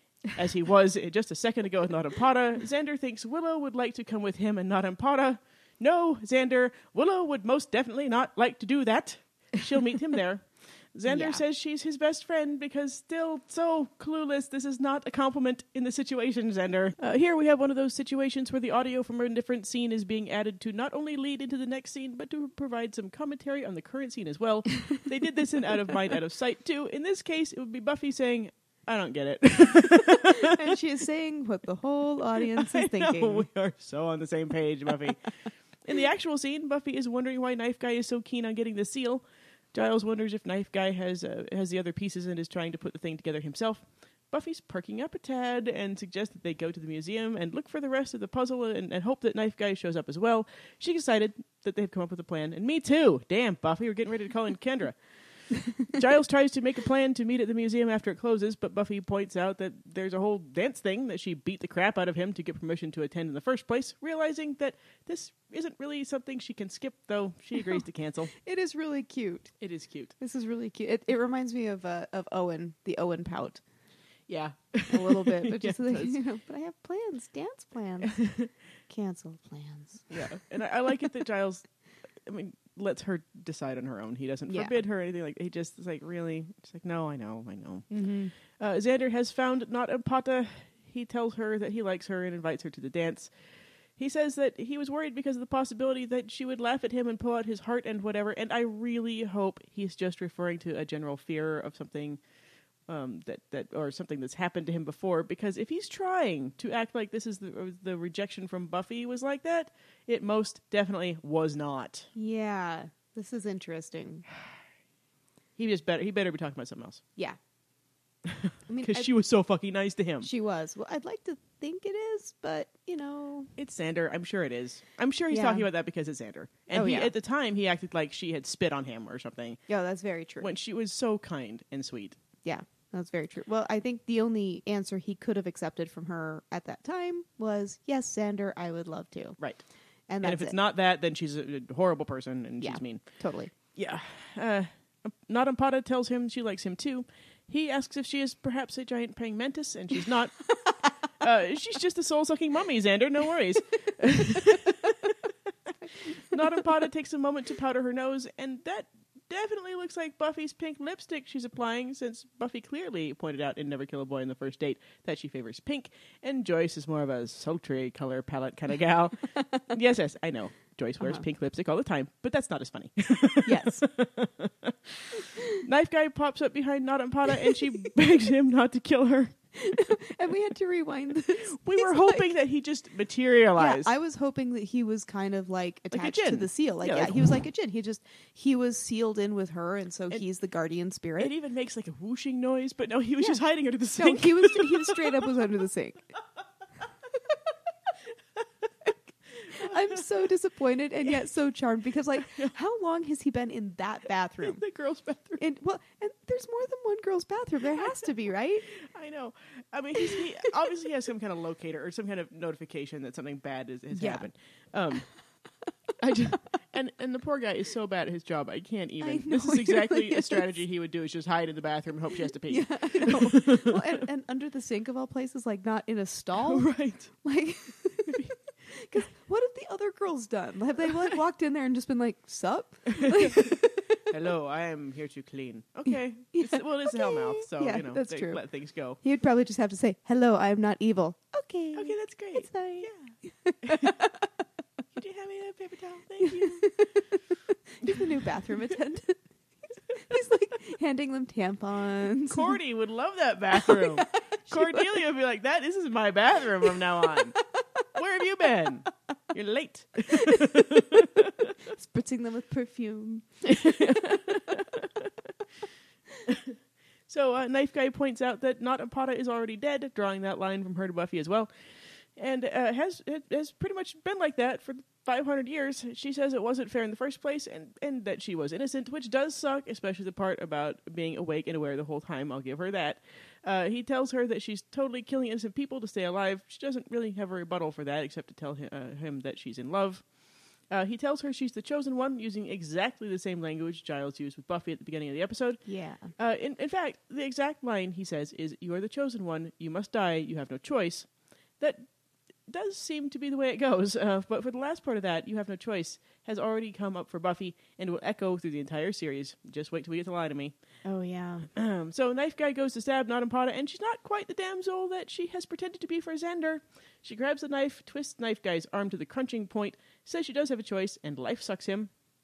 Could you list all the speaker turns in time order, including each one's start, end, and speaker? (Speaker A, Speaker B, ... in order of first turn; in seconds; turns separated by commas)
Speaker A: 0.3-30.7, Speaker B: 11.1-11.4, Speaker B: 29.7-33.5, Speaker A: 32.4-35.3, Speaker A: 35.8-55.0, Speaker A: 55.7-68.3, Speaker B: 68.3-69.5, Speaker A: 69.6-70.2, Speaker B: 70.2-73.6, Speaker A: 74.3-76.2, Speaker B: 74.9-78.3, Speaker A: 78.0-78.5, Speaker B: 78.9-80.1, Speaker A: 80.1-81.7, Speaker A: 82.2-93.3, Speaker B: 84.5-84.7, Speaker B: 87.9-88.3, Speaker A: 94.0-102.2, Speaker A: 102.9-112.1, Speaker B: 112.2-114.3, Speaker A: 115.6-117.0, Speaker A: 118.2-120.3, Speaker B: 118.7-119.1, Speaker B: 120.2-123.5, Speaker A: 123.6-129.6, Speaker B: 125.3-125.7, Speaker B: 126.7-127.1, Speaker B: 129.7-130.5, Speaker A: 130.4-132.2, Speaker B: 132.4-139.4, Speaker A: 139.4-139.6, Speaker B: 140.1-140.6, Speaker A: 140.2-143.0, Speaker B: 142.6-143.5, Speaker A: 143.7-150.5, Speaker A: 151.2-179.4, Speaker B: 154.5-154.9, Speaker B: 173.4-173.9, Speaker B: 179.6-182.3, Speaker A: 181.4-183.9, Speaker B: 183.6-191.3, Speaker A: 185.9-187.4, Speaker A: 191.2-195.5, Speaker B: 194.0-196.1, Speaker A: 199.4-200.2, Speaker B: 199.5-204.6, Speaker A: 202.3-202.5, Speaker A: 204.4-205.4, Speaker B: 205.4-208.7, Speaker A: 208.7-215.1, Speaker B: 210.0-210.7, Speaker B: 213.9-214.3, Speaker A: 216.0-224.0, Speaker B: 219.0-220.6, Speaker B: 222.4-234.0, Speaker A: 226.4-227.1, Speaker A: 228.0-228.3, Speaker A: 232.9-239.0, Speaker B: 236.3-238.4, Speaker B: 239.0-244.3, Speaker A: 241.8-244.0, Speaker A: 244.9-246.8, Speaker B: 246.2-249.2, Speaker B: 249.9-252.6, Speaker A: 252.3-257.4, Speaker B: 253.6-255.0, Speaker A: 257.9-261.6, Speaker B: 260.1-261.1, Speaker B: 261.7-264.6, Speaker A: 263.5-265.3, Speaker A: 266.2-266.6, Speaker A: 267.1-290.1, Speaker A: 290.7-295.6, Speaker B: 295.7-296.1, Speaker A: 296.2-301.1, Speaker A: 301.6-301.9, Speaker A: 302.5-310.6, Speaker B: 310.8-311.5, Speaker A: 311.5-321.9